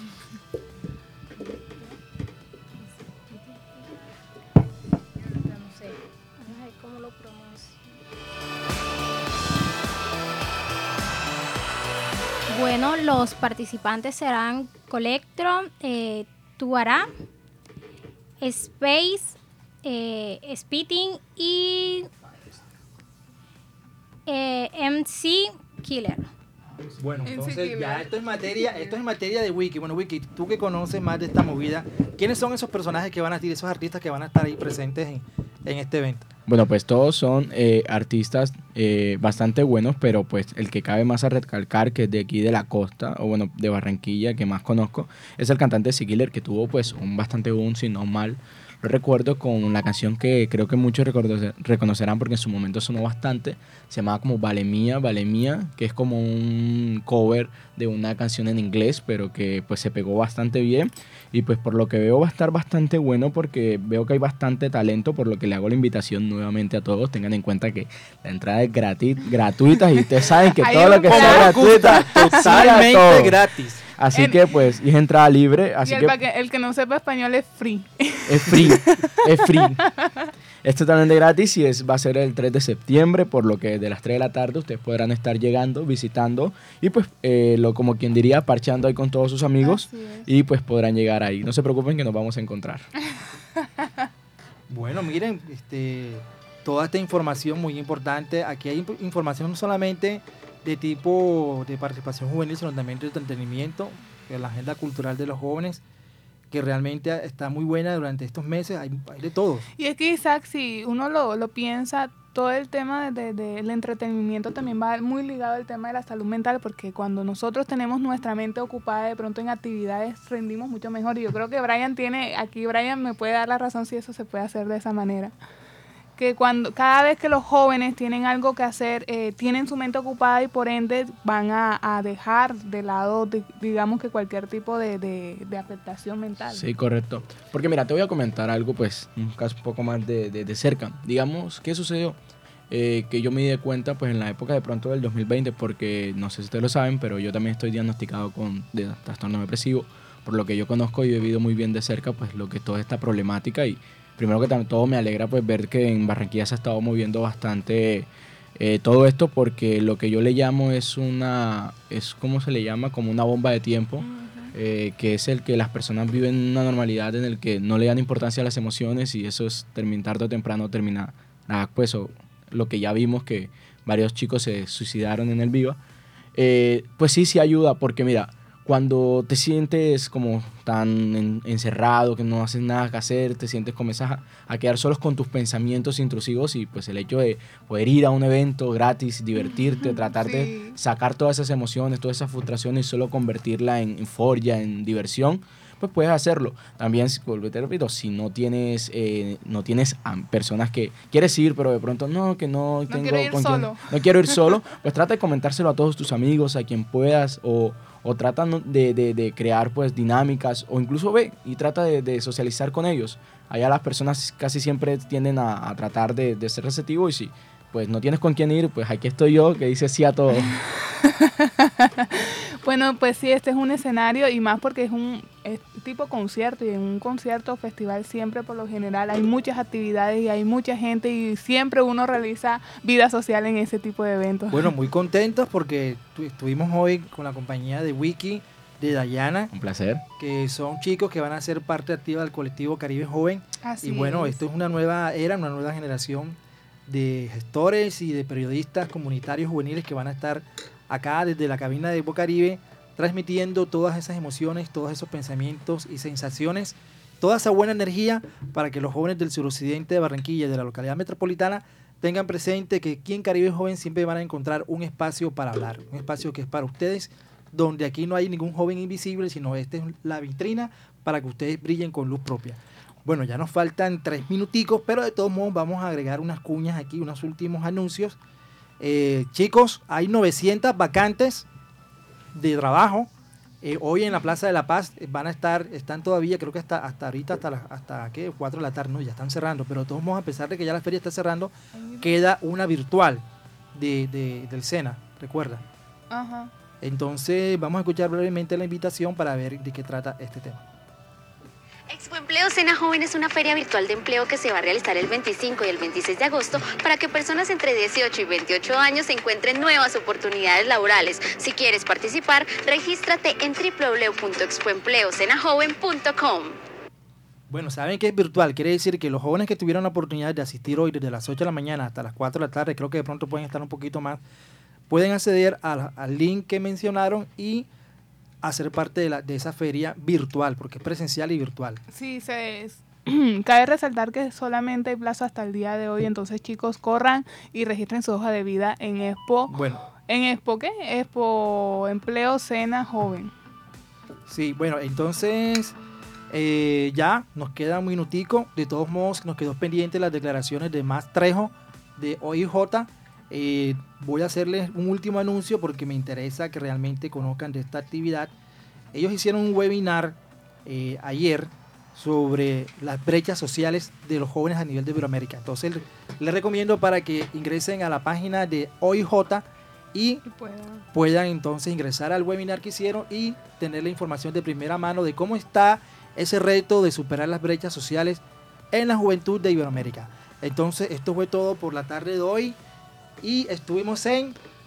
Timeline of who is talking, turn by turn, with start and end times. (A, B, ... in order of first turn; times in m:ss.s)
0:01.4-0:01.9 A
0:03.2-0:04.0 A
0:05.2-0:07.8 A
0:12.5-0:17.1 A
0:18.4-0:22.1 A
0:24.3-0:26.3 A
0:27.0-0:36.3 B
0:27.3-0:28.8 C
0:36.5-1:13.4 D
1:10.6-1:12.8 C
1:11.1-1:13.8 B
1:14.0-1:16.2 D
1:14.1-1:14.5 C
1:15.8-1:20.3 C
1:18.3-1:19.8 D
1:20.6-1:32.9 D
1:29.6-1:30.3 C
1:34.7-1:45.8 B
1:46.5-1:49.7 B
1:49.8-2:05.3 C
2:06.2-2:16.6 C
2:16.5-2:22.2 D
2:22.7-2:55.8 D
2:44.0-2:44.5 C
2:56.4-3:40.6 D
3:09.4-3:10.8 C
3:22.9-3:24.4 C
3:40.5-3:54.8 C
3:54.5-3:59.5 B
3:59.5-4:00.0 D
4:00.2-4:38.2 B
4:03.6-4:04.4 C
4:38.8-4:41.5 B
4:42.3-4:43.1 B
4:43.6-4:55.6 B
4:51.8-4:52.2 C
4:56.1-4:56.5 C
4:56.8-5:00.6 B
5:01.9-5:16.6 E
5:17.5-5:24.2 B
5:24.9-5:27.7 B
5:28.4-5:31.8 B
5:31.9-5:43.3 C
5:39.5-5:39.8 B
5:44.3-5:45.8 B
5:46.3-5:58.3 B
5:58.9-6:10.2 B
6:10.2-6:10.8 C
6:10.9-6:18.2 B
6:18.7-6:22.6 B
6:23.2-6:24.4 B